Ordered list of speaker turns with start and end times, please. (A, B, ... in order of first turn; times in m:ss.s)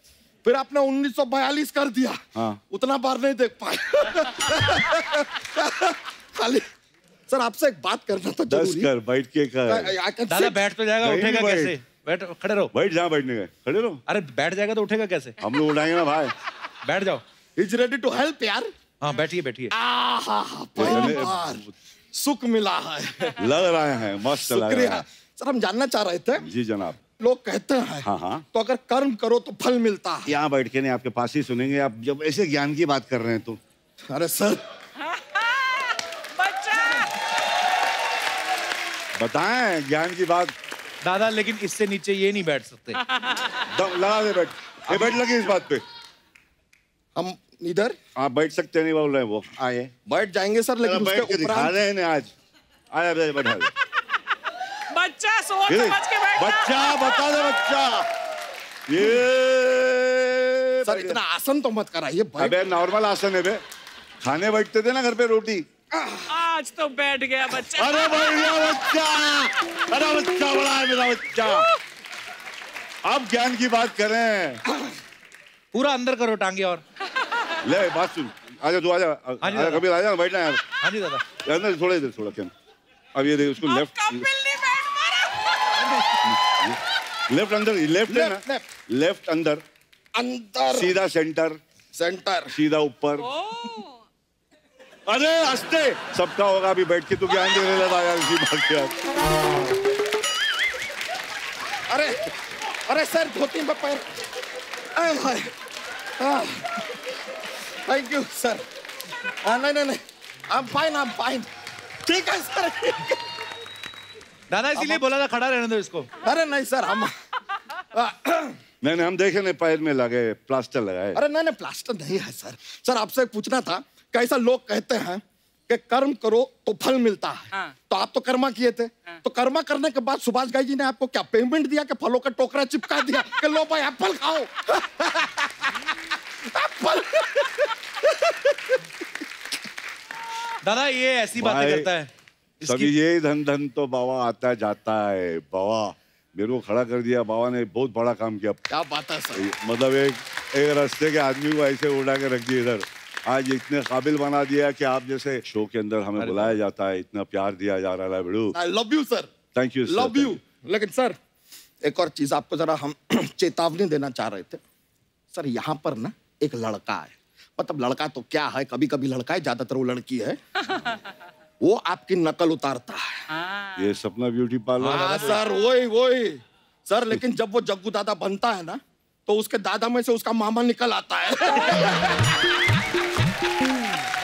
0:00.4-0:06.6 A
0:02.4-0:02.6 B
0:07.3-0:08.9 A
0:08.5-0:09.9 B
0:09.7-0:10.6 A
0:10.3-0:12.7 C
0:11.0-0:11.8 B
0:12.7-0:14.0 B
0:14.1-0:15.4 C
0:15.4-0:16.3 B
0:16.8-0:17.2 C
0:17.6-0:18.7 A
0:19.0-0:19.8 C
0:19.7-0:23.4 A
0:20.8-0:21.7 B
0:23.4-0:25.0 B
0:24.4-0:26.5 A
0:26.4-0:27.0 B
0:27.2-0:30.3 A
0:28.0-0:28.5 B
0:30.3-0:33.6 B
0:34.1-0:34.6 A
0:35.1-0:37.1 D
0:39.2-0:40.6 B
0:41.0-0:43.0 C
0:43.1-0:43.4 D
0:43.7-0:45.8 B
0:44.9-0:45.2 C
0:47.2-0:48.0 A
0:48.2-0:49.9 B
0:50.1-0:51.8 A
0:50.8-0:52.3 B
0:52.9-0:53.7 B
0:54.9-0:57.6 D
0:55.7-0:58.1 B
0:58.9-1:01.2 B
1:00.8-1:02.7 A
1:02.4-1:03.6 B
1:04.2-1:05.7 B
1:05.9-1:06.2 A
1:06.3-1:08.6 D
1:07.6-1:11.7 B
1:13.0-1:14.6 B
1:15.7-1:16.8 C
1:17.6-1:20.6 B
1:19.4-1:19.8 C
1:20.8-1:21.2 C
1:21.4-1:22.5 B
1:23.2-1:24.3 B
1:23.6-1:25.7 D
1:25.9-1:26.2 C
1:26.2-1:29.6 B
1:28.1-1:28.7 A
1:30.1-1:31.0 A
1:30.7-1:31.6 B
1:31.9-1:32.5 A
1:32.5-1:33.3 B
1:33.2-1:34.0 D
1:35.1-1:38.9 B
1:41.9-1:42.3 A
1:42.9-1:44.0 A
1:45.0-1:45.5 A
1:46.2-1:46.9 A
1:47.9-1:48.6 A
1:49.4-1:51.5 A
1:52.0-1:53.2 A
1:54.5-1:56.1 C
1:54.8-1:55.1 A
1:56.2-1:57.1 A
1:57.9-1:58.6 A
1:58.8-2:01.2 B
2:01.2-2:15.5 A
2:16.4-2:18.8 A
2:20.6-2:22.1 C
2:21.4-2:21.9 B
2:22.6-2:22.9 C
2:22.6-2:28.6 B
2:28.7-2:29.5 A
2:29.3-2:38.6 B
2:36.2-2:36.6 C
2:38.5-2:39.3 A
2:39.5-2:40.4 B
2:39.9-2:41.2 A
2:41.8-2:44.6 A
2:45.3-2:50.4 A
2:51.6-2:53.2 A
2:53.3-2:53.9 D
2:53.8-2:55.4 B
2:54.8-2:55.4 C
2:54.9-3:02.1 A